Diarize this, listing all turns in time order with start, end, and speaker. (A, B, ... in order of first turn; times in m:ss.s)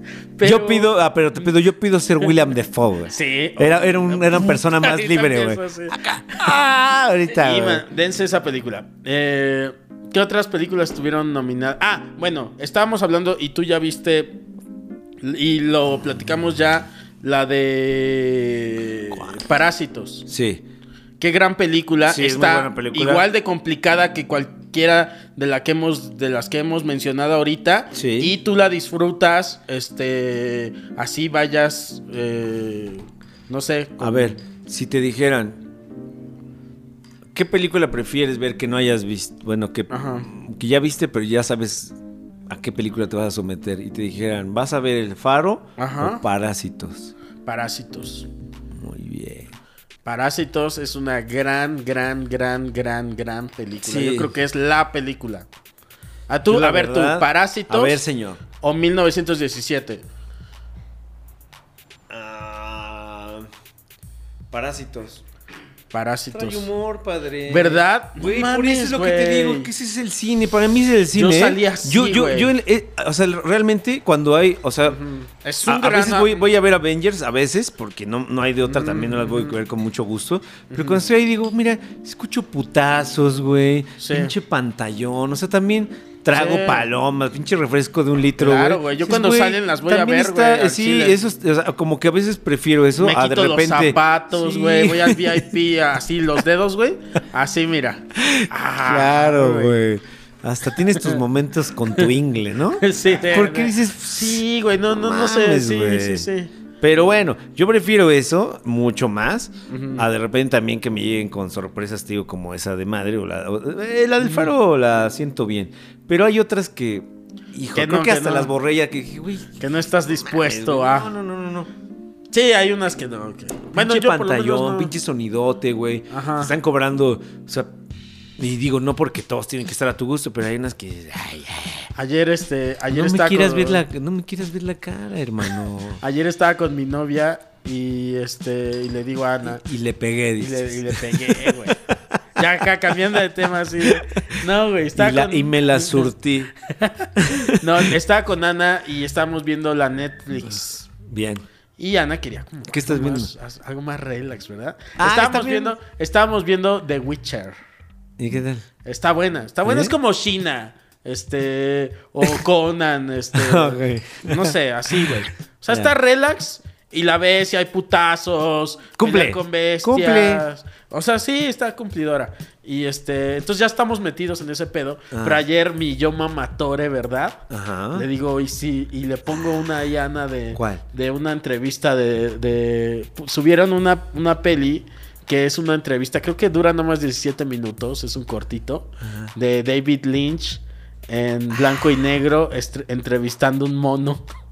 0:00.4-0:00.9 A
0:00.4-0:07.8 B
0:03.1-0:06.4 A
0:07.3-0:14.4 A
0:15.2-0:20.2 A
0:19.1-0:19.4 B
0:20.2-0:20.6 B
0:21.2-0:34.4 A
0:22.0-0:23.2 B
0:27.9-0:28.3 B
0:34.0-0:35.6 B
0:37.3-0:47.1 B
0:39.9-0:40.3 A
0:45.8-0:46.2 A
0:47.4-0:48.3 A
0:48.7-0:49.5 B
0:50.0-0:55.5 A
0:53.8-0:54.3 B
0:56.3-0:58.0 A
0:56.5-0:58.4 B
0:58.6-1:00.0 A
1:02.1-1:03.5 B
1:04.5-1:05.2 B
1:05.9-1:06.7 A
1:06.3-1:15.0 B
1:07.5-1:09.7 A
1:11.1-1:12.5 A
1:14.8-1:16.4 A
1:15.6-1:35.5 B
1:18.6-1:19.6 A
1:20.7-1:21.0 A
1:24.0-1:24.3 A
1:26.3-1:26.8 A
1:28.4-1:31.2 A
1:33.0-1:39.8 A
1:38.2-1:46.3 B
1:40.8-1:41.2 A
1:42.8-1:46.5 A
1:46.8-2:01.7 B
1:49.7-1:50.0 A
1:54.2-1:54.5 A
1:57.7-1:58.5 A
1:59.6-2:01.1 A
2:02.3-2:04.9 A
2:03.7-2:07.7 B
2:06.1-2:06.5 A
2:08.4-2:11.9 B
2:12.0-2:13.8 A
2:12.9-2:16.0 B
2:16.0-2:19.6 A
2:19.5-2:22.2 B
2:20.4-2:21.8 A
2:22.4-2:26.1 A
2:22.9-2:23.2 B
2:23.8-2:24.2 B
2:24.9-2:26.5 B
2:26.7-2:30.8 A
2:27.2-2:27.9 B
2:30.4-2:31.4 B
2:31.8-2:37.6 A
2:32.7-2:33.3 B
2:35.0-2:35.7 B
2:38.2-2:38.6 B
2:38.8-3:14.2 A
2:39.6-2:39.9 B
2:43.3-2:45.9 B
2:49.0-2:50.4 B
2:55.1-2:55.4 B
2:57.5-2:58.1 B
3:00.5-3:00.8 B
3:09.0-3:09.3 B